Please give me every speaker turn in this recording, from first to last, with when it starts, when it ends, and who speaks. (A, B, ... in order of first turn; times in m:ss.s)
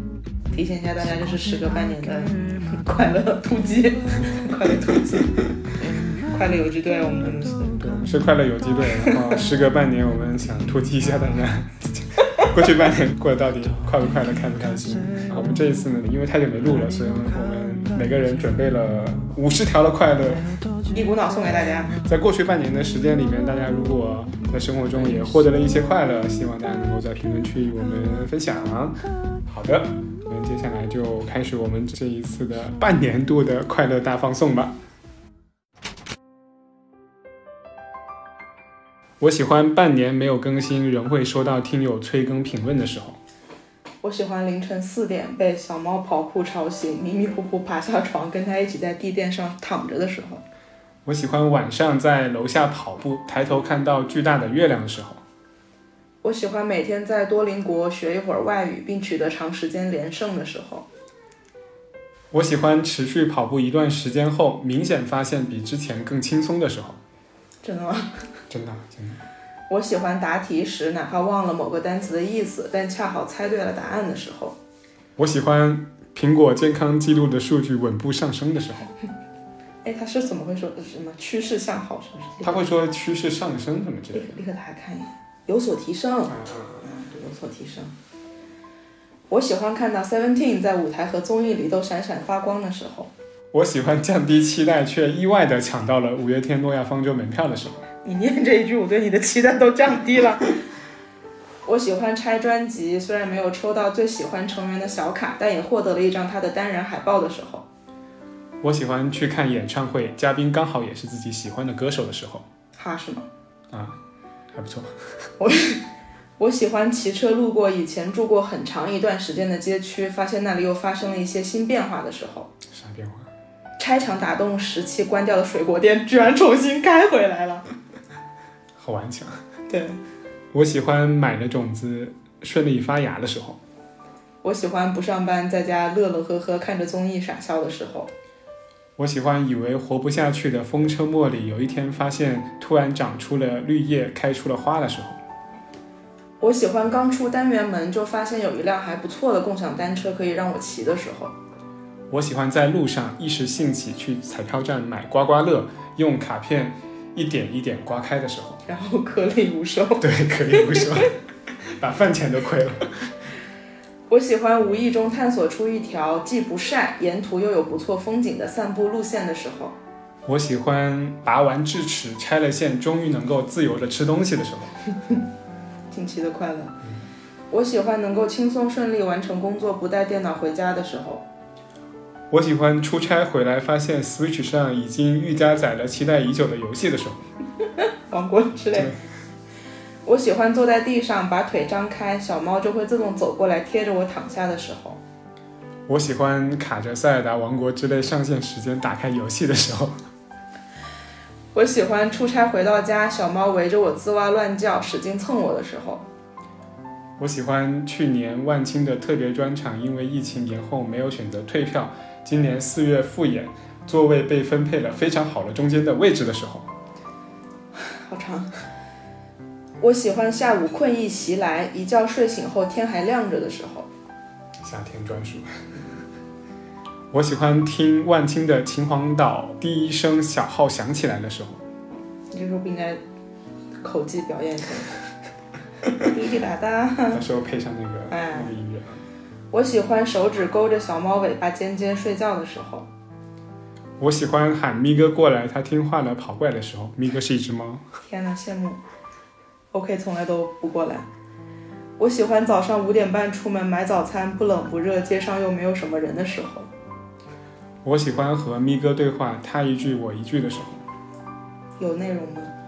0:00.5-0:05.4 A
0:06.3-0:07.8 A
0:07.8-0:20.5 B
0:20.9-0:22.0 A
0:22.0-0:34.8 B
0:39.2-0:43.2 B
0:44.0-0:50.4 A
0:51.1-0:55.2 B
0:56.2-1:00.9 A
1:02.3-1:07.0 B
1:07.6-1:08.1 A
1:08.5-1:09.2 B
1:09.7-1:14.6 A
1:15.2-1:18.9 B
1:19.8-1:22.7 A
1:22.4-1:24.4 B
1:24.1-1:27.9 A
1:26.3-1:26.9 B
1:29.3-1:33.1 A
1:33.5-1:37.8 B
1:38.0-1:40.5 A
1:41.6-1:47.7 A
1:48.6-1:52.5 B
1:52.8-1:53.3 A
1:53.7-1:54.0 B
1:54.5-1:54.9 B
1:55.4-1:55.8 A
1:56.4-2:02.5 A
2:02.7-2:03.3 B
2:03.8-2:07.7 A
2:08.8-2:09.4 B
2:09.7-2:10.0 A
2:10.5-2:13.6 B
2:14.4-2:18.1 A
2:19.0-2:25.2 B
2:26.4-2:31.4 A
2:32.1-2:38.6 B
2:38.7-2:41.1 A
2:40.0-2:41.1 B
2:41.8-2:42.9 B
2:44.1-2:49.8 A
2:50.3-2:54.8 B
2:55.9-2:56.7 A
2:57.5-3:01.2 A
3:02.3-3:07.3 B
3:07.8-3:08.9 A
3:08.7-3:09.0 B
3:10.0-3:15.0 A
3:15.9-3:19.9 B
3:21.5-3:26.0 A
3:27.2-3:36.7 B
3:37.8-3:38.5 A
3:39.8-3:43.9 A
3:44.6-3:45.5 B
3:47.1-3:51.6 B
3:52.3-3:53.0 A
3:53.8-3:55.0 A
3:56.0-3:57.2 A
3:57.1-3:59.0 B
3:58.1-3:58.5 A
3:59.5-4:02.9 A
4:04.0-4:07.8 B
4:08.0-4:08.8 A
4:09.7-4:11.1 A
4:12.0-4:16.7 A
4:17.8-4:20.8 B
4:21.8-4:22.5 A